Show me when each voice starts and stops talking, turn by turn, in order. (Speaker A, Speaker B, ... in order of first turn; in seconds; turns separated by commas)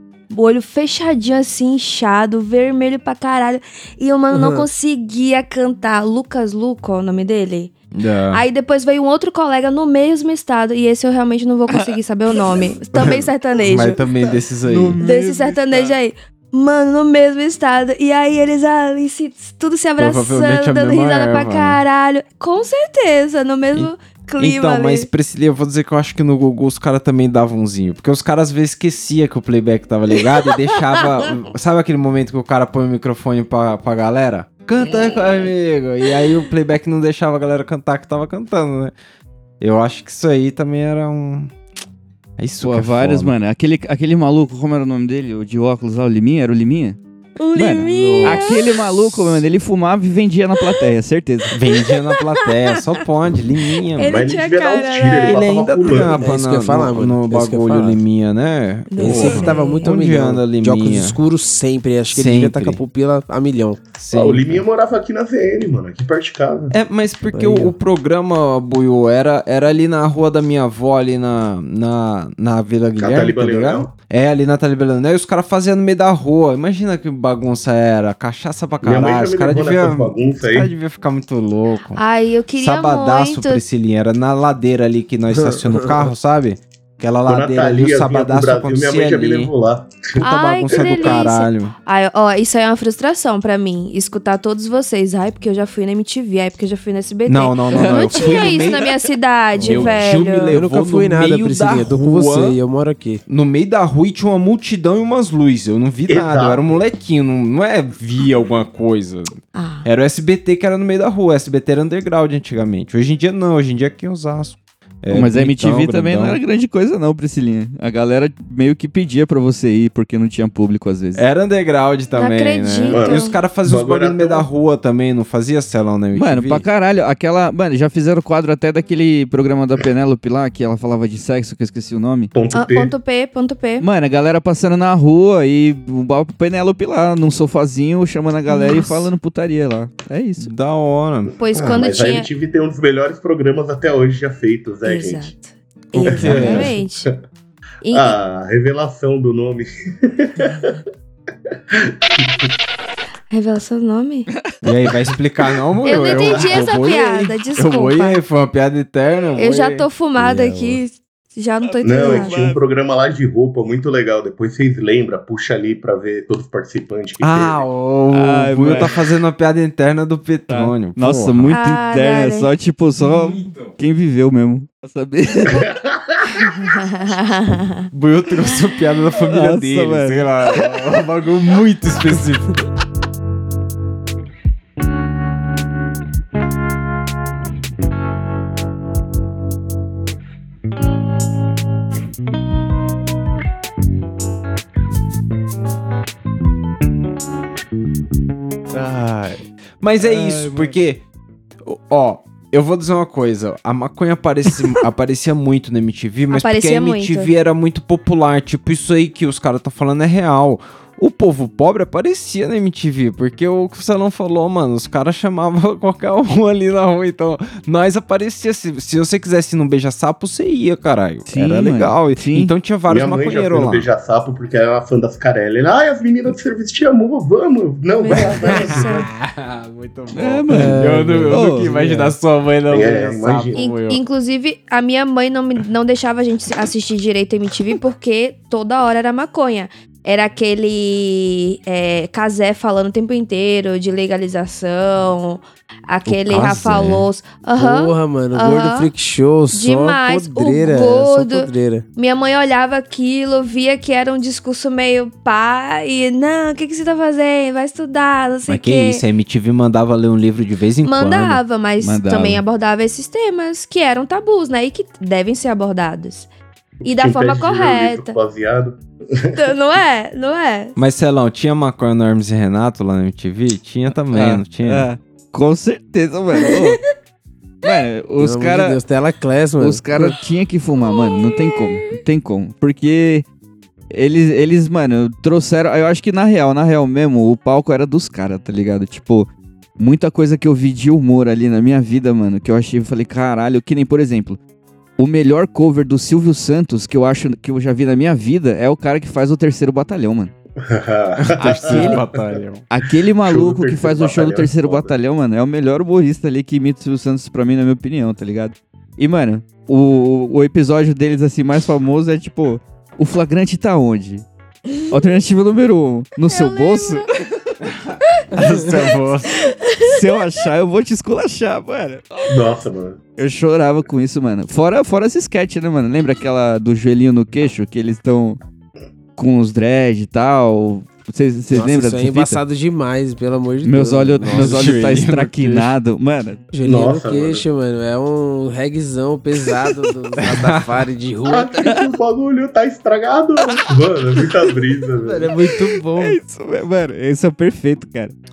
Speaker A: 0.3-7.7, Speaker B: 4.3-4.7, Speaker C: 7.9-8.4, Speaker A: 8.3-14.0, Speaker C: 12.9-15.0, Speaker D: 14.7-15.9, Speaker A: 15.0-25.1, Speaker C: 20.0-21.8, Speaker C: 23.7-38.9, Speaker C: 39.6-41.5, Speaker C: 42.4-43.3, Speaker D: 42.6-47.0, Speaker A: 47.4-48.9, Speaker D: 47.5-51.5, Speaker C: 47.9-48.5, Speaker C: 51.5-54.3, Speaker A: 51.7-52.9, Speaker A: 53.9-55.4, Speaker E: 54.0-56.3, Speaker C: 55.2-61.2, Speaker B: 56.2-58.0, Speaker A: 58.9-59.9, Speaker B: 59.0-63.8, Speaker C: 62.1-62.8, Speaker C: 64.0-64.6, Speaker E: 64.1-66.7, Speaker C: 66.7-82.0, Speaker B: 67.3-67.8, Speaker E: 73.0-73.9, Speaker E: 78.8-80.7, Speaker A: 82.0-83.6, Speaker C: 82.6-89.5, Speaker B: 85.3-86.1, Speaker E: 87.2-90.0, Speaker C: 90.2-91.7, Speaker A: 90.2-100.6, Speaker E: 90.7-91.2, Speaker C: 97.2-98.9, Speaker D: 97.7-98.8, Speaker C: 99.6-102.6, Speaker B: 100.5-103.2, Speaker C: 103.3-116.4, Speaker E: 106.1-106.7, Speaker A: 109.5-109.9, Speaker D: 115.1-121.2, Speaker C: 121.2-126.6, Speaker A: 122.1-123.4, Speaker E: 122.8-124.5, Speaker D: 126.1-132.3, Speaker E: 132.3-132.9, Speaker A: 132.5-133.9, Speaker D: 133.8-140.5, Speaker A: 138.5-139.1, Speaker C: 140.4-141.8, Speaker A: 141.4-142.3, Speaker E: 141.5-145.3, Speaker A: 144.8-147.1, Speaker E: 145.9-146.9, Speaker C: 146.0-146.7, Speaker A: 147.8-148.2, Speaker E: 147.9-150.8, Speaker E: 151.5-152.5, Speaker A: 153.3-154.3, Speaker C: 154.6-159.8, Speaker A: 155.8-158.2, Speaker E: 155.8-156.6, Speaker A: 159.4-162.4, Speaker B: 160.2-160.8, Speaker D: 161.6-162.6, Speaker E: 161.8-167.6, Speaker C: 167.2-171.5, Speaker D: 168.1-169.0, Speaker D: 170.5-175.7, Speaker A: 171.5-172.5, Speaker C: 173.0-173.8, Speaker E: 175.5-176.4, Speaker A: 176.5-177.9, Speaker C: 177.9-182.6, Speaker D: 179.2-180.7, Speaker C: 198.7-201.0, Speaker C: 201.6-223.9, Speaker A: 206.3-207.3, Speaker D: 221.3-222.5, Speaker E: 222.9-229.0, Speaker A: 227.9-229.1, Speaker C: 228.1-234.0, Speaker D: 230.1-231.7, Speaker B: 230.5-232.1, Speaker E: 232.7-233.6, Speaker A: 233.5-248.9, Speaker C: 246.1-247.0, Speaker B: 247.6-251.8, Speaker A: 249.5-259.0, Speaker C: 258.5-261.4, Speaker A: 260.8-266.3, Speaker D: 261.8-262.4, Speaker A: 266.8-268.1, Speaker E: 266.8-269.4, Speaker A: 269.3-270.8, Speaker C: 270.8-274.9, Speaker D: 274.1-276.8, Speaker A: 276.4-276.7, Speaker D: 277.6-278.8, Speaker B: 278.2-280.1, Speaker D: 279.6-283.2, Speaker A: 280.8-281.9, Speaker D: 283.9-294.4, Speaker D: 295.0-300.3, Speaker E: 300.6-302.4, Speaker C: 301.2-302.6, Speaker D: 301.4-302.0, Speaker D: 302.7-314.3, Speaker E: 303.2-304.9, Speaker D: 314.9-317.1, Speaker A: 316.3-317.1, Speaker C: 317.8-319.4, Speaker A: 319.4-320.0, Speaker D: 319.8-322.5, Speaker E: 322.3-323.0, Speaker D: 323.2-328.4, Speaker D: 329.1-332.4, Speaker B: 331.5-334.8, Speaker D: 333.6-336.5, Speaker C: 334.3-335.7, Speaker B: 336.5-341.8, Speaker E: 336.6-337.4, Speaker C: 340.2-340.7, Speaker E: 341.3-345.3, Speaker B: 345.0-346.2, Speaker D: 345.5-348.1